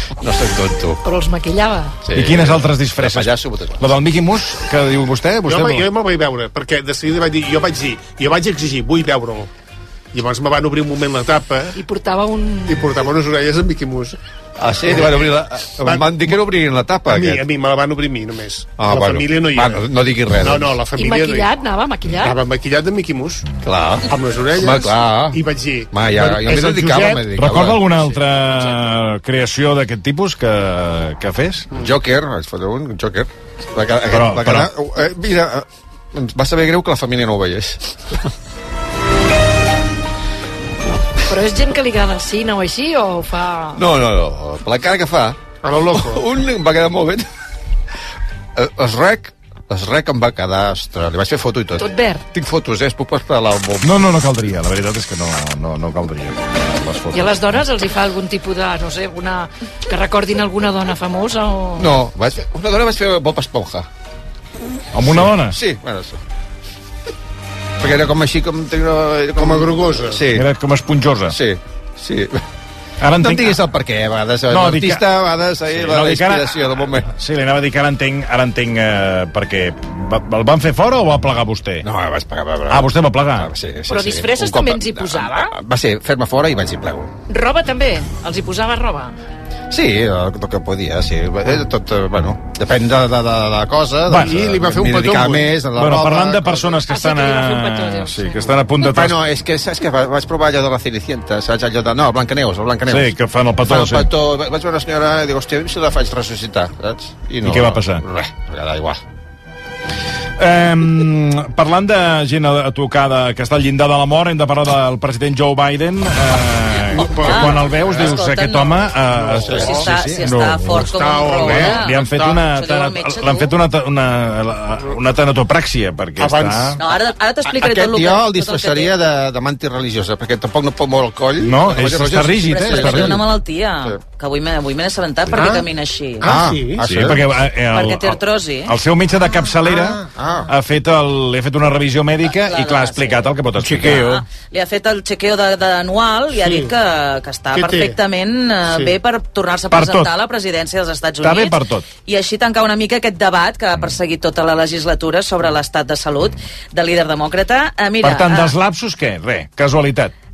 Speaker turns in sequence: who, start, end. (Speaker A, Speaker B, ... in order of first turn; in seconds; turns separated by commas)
Speaker A: 0.2-1.0, Speaker B: 1.0-2.0, Speaker A: 2.0-3.9, Speaker C: 2.1-5.9, Speaker D: 5.5-9.5, Speaker D: 10.1-11.8, Speaker B: 11.8-12.9, Speaker D: 12.7-14.2, Speaker A: 14.6-17.5, Speaker D: 14.9-15.3, Speaker D: 15.8-16.1, Speaker D: 17.1-19.9, Speaker A: 18.8-20.8, Speaker D: 20.4-21.5, Speaker B: 20.9-22.4, Speaker D: 22.2-23.4, Speaker A: 23.6-28.1, Speaker D: 24.1-27.3, Speaker C: 27.3-31.7, Speaker A: 31.7-38.1, Speaker C: 34.1-34.7, Speaker B: 41.3-43.8, Speaker A: 43.7-45.4, Speaker D: 45.6-46.2, Speaker A: 45.9-47.3, Speaker A: 48.6-54.1, Speaker B: 51.8-52.2, Speaker C: 53.8-57.4, Speaker B: 57.1-61.9, Speaker A: 61.8-63.9, Speaker C: 64.9-65.6, Speaker A: 65.1-66.2, Speaker A: 67.8-70.5, Speaker D: 69.4-70.2, Speaker C: 70.3-71.4, Speaker A: 71.3-72.4, Speaker C: 73.0-73.6, Speaker A: 73.2-77.1, Speaker C: 74.5-75.1, Speaker C: 75.8-81.9, Speaker A: 81.8-87.1, Speaker C: 82.7-83.5, Speaker B: 83.9-85.5, Speaker B: 87.3-89.2, Speaker A: 89.7-96.6, Speaker C: 94.1-94.4, Speaker D: 94.2-95.6, Speaker C: 95.7-99.2, Speaker B: 96.9-98.5, Speaker A: 98.8-109.0, Speaker C: 102.9-104.1, Speaker C: 107.4-108.0, Speaker C: 110.4-126.8, Speaker D: 116.9-118.2, Speaker E: 117.2-118.9, Speaker D: 119.1-122.4, Speaker E: 119.5-123.5, Speaker D: 126.2-126.7, Speaker E: 126.8-128.9, Speaker A: 127.5-133.2, Speaker C: 131.4-133.2, Speaker E: 132.5-136.3, Speaker D: 135.3-135.7, Speaker D: 136.2-137.0, Speaker A: 136.2-137.2, Speaker C: 136.8-144.2, Speaker E: 137.7-138.7, Speaker A: 140.2-140.5, Speaker E: 142.3-158.5, Speaker D: 146.4-146.7, Speaker D: 147.5-148.0, Speaker D: 148.7-148.9, Speaker C: 149.7-150.1, Speaker C: 151.2-151.9, Speaker C: 158.0-160.1